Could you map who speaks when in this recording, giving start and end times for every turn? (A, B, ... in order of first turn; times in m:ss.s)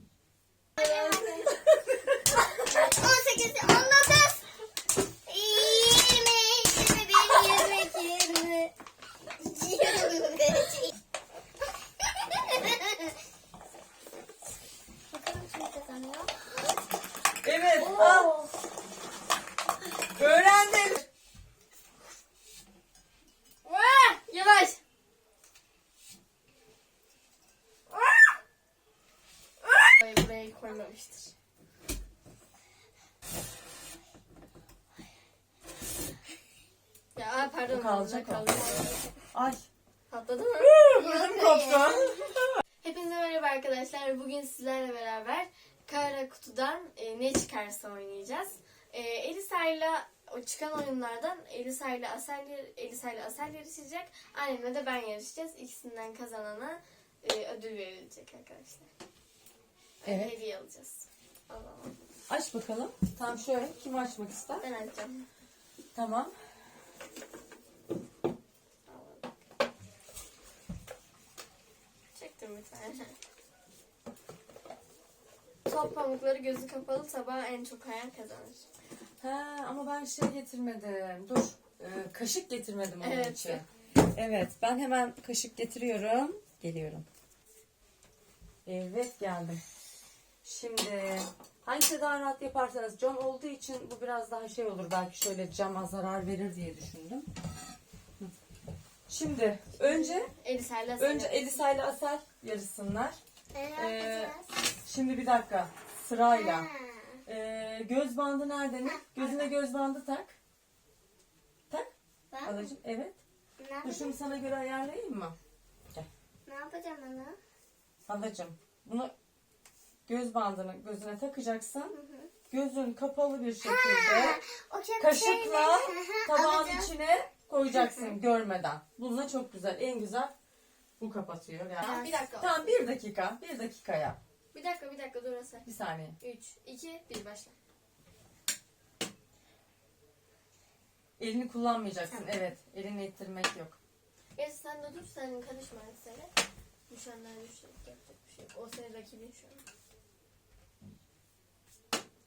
0:00.8-0:01.6 A
0:00.8-0:01.6 B
0:02.5-0:04.4 A
0:05.2-0:08.7 A
0:09.4-0:10.9 A
0:12.4-0:13.0 A
0:15.1-0:16.3 A
0:17.4-0:18.3 C
0:17.8-0:18.5 B
0:20.2-0:21.1 C
0:23.6-0:24.8 B
0:29.9-0:31.3 B
0:37.1-0:39.0 B
0:37.7-0:38.5 C
0:39.3-0:39.6 C
0:40.1-0:40.7 B
0:40.6-0:42.6 C
0:40.9-0:42.1 A
0:42.8-0:58.9 B
1:00.0-1:02.0 B
1:00.0-1:00.3 C
1:02.3-1:04.6 C
1:04.6-1:05.3 B
1:05.9-1:06.3 C
1:08.9-1:09.2 B
1:12.1-1:13.1 B
1:15.6-1:18.6 B
1:19.2-1:27.0 C
1:23.0-1:23.6 B
1:28.6-1:29.6 C
1:30.4-1:37.3 C
1:39.1-1:40.3 C
1:39.8-1:41.6 B
1:41.0-1:43.2 C
1:43.5-1:44.5 A
1:43.8-1:44.3 C
1:44.8-1:46.7 C
1:46.3-1:47.2 A
1:47.2-1:50.4 C
1:48.8-1:49.5 A
1:52.3-1:52.7 A
1:52.4-1:53.2 C
1:53.6-1:54.3 A
1:53.8-1:55.4 C
1:56.5-1:57.4 A
1:58.1-1:59.1 C
2:00.1-2:02.0 C
2:01.9-2:02.3 A
2:02.5-2:04.4 C
2:03.6-2:06.9 A
2:05.0-2:10.3 C
2:07.7-2:08.1 A
2:11.0-2:14.2 C
2:11.8-2:12.7 B
2:11.8-2:12.1 A
2:14.5-2:15.6 B
2:15.6-2:16.2 C
2:16.2-2:17.5 B
2:21.2-2:23.8 C
2:24.4-2:26.3 B
2:26.9-2:29.6 B